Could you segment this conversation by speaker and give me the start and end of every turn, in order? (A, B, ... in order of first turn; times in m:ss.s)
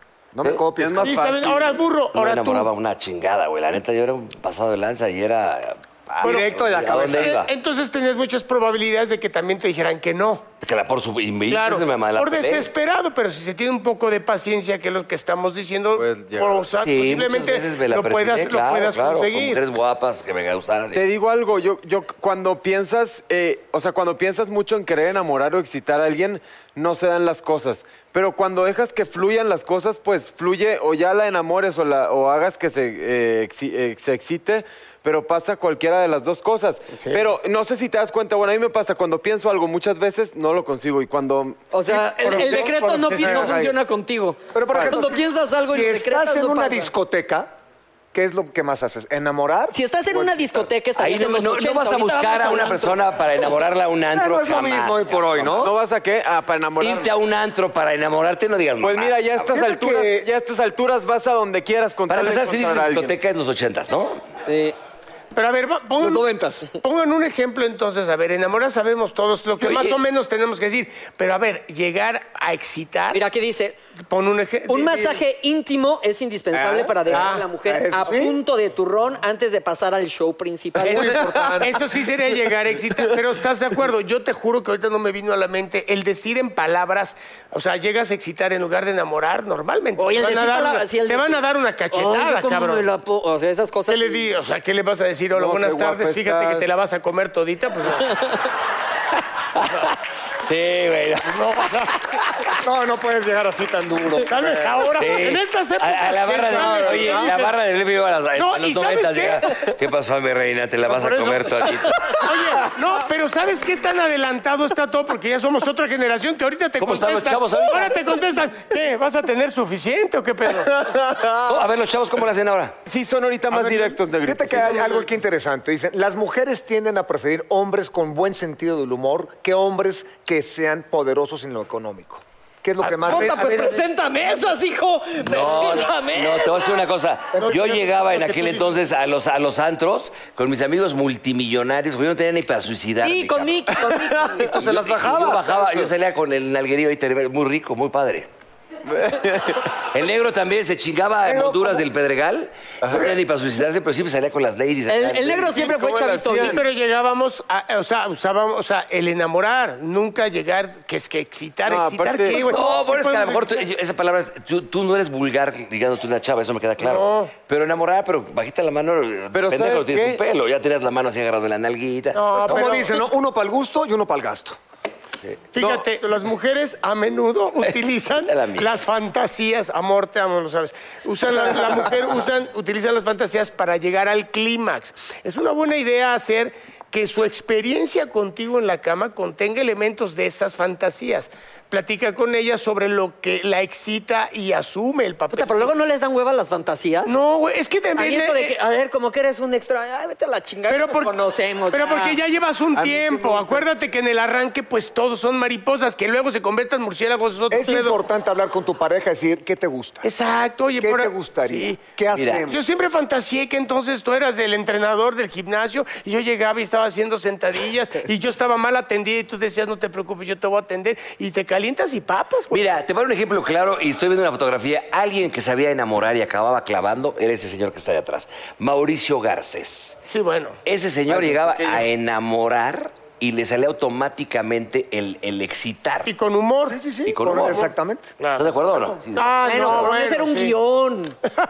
0:00.3-0:01.4 A
0:00.8-0:01.8 B
0:01.0-0:02.7 C
0:02.1-0:07.5 D
0:06.2-0:07.4 A
0:06.2-0:10.4 C
0:10.6-0:12.7 D
0:11.5-0:19.6 C
0:16.0-0:16.7 B
0:16.8-0:21.0 D
0:20.9-0:42.4 B
0:37.0-0:37.3 C
0:41.7-0:46.9 E
0:41.9-0:43.7 C
0:42.4-0:43.8 A
0:44.5-0:47.5 A
0:48.1-0:50.7 A
0:49.7-0:53.0 E
0:51.0-0:55.7 D
0:54.1-0:55.7 A
0:55.6-0:57.1 B
0:56.8-0:59.6 D
0:58.8-1:03.2 B
0:59.5-1:00.3 A
1:02.1-1:04.2 D
1:04.5-1:04.8 E
1:05.3-1:06.3 C
1:06.0-1:06.6 A
1:06.8-1:13.2 C
1:09.6-1:10.0 D
1:13.1-1:13.8 E
1:14.1-1:15.2 C
1:14.7-1:21.8 E
1:16.5-1:18.4 A
1:17.1-1:17.5 C
1:20.8-1:32.9 C
1:20.9-1:21.7 A
1:30.0-1:34.4 E
1:33.9-1:38.2 C
1:35.3-1:36.7 B
1:39.6-1:41.5 D
1:41.4-1:41.9 C
1:42.6-1:45.0 A
1:44.3-1:47.5 C
1:45.0-1:52.2 D
1:46.4-1:47.3 A
1:48.4-1:49.6 C
1:50.9-2:00.7 C
1:56.8-1:58.1 D
2:01.0-2:01.4 B
2:01.5-2:02.8 D
2:02.9-2:05.1 B
2:03.6-2:13.8 A
2:12.8-2:16.8 E
2:13.0-2:13.9 C
2:15.2-2:23.7 D
2:17.4-2:17.6 A
2:17.4-2:18.7 C
2:23.0-2:24.5 E
2:23.8-2:24.3 B
2:24.3-2:25.9 A
2:24.5-2:28.3 D
2:28.9-2:29.6 B
2:29.9-2:35.7 D
2:31.2-2:31.8 A
2:32.8-2:33.1 B
2:34.9-2:36.6 E
2:35.4-2:36.6 B
2:36.4-2:43.7 C
2:41.6-2:42.5 B
2:42.3-2:52.8 D
2:46.8-2:47.3 C
2:49.3-2:50.2 B
2:52.2-2:53.0 C
2:52.4-2:54.6 A
2:55.6-3:15.7 C
2:55.6-2:55.8 B
2:58.3-2:58.7 D
3:15.3-3:17.2 E
3:17.1-3:18.6 C
3:18.0-3:22.2 E
3:20.7-3:21.1 C
3:21.7-3:28.0 C
3:22.7-3:23.7 B
3:27.5-3:30.1 A
3:30.0-3:31.8 C
3:30.8-3:32.6 A
3:32.1-3:32.5 D
3:32.5-3:42.7 C
3:42.5-3:50.0 D
3:50.1-3:50.6 C
3:50.6-3:56.1 D
3:51.1-3:51.8 B
3:56.1-3:56.8 C
3:56.7-3:59.0 A
3:57.1-3:57.7 D
3:58.2-3:58.5 C
3:58.4-3:59.9 D
3:59.2-4:00.6 C
3:59.4-4:01.2 E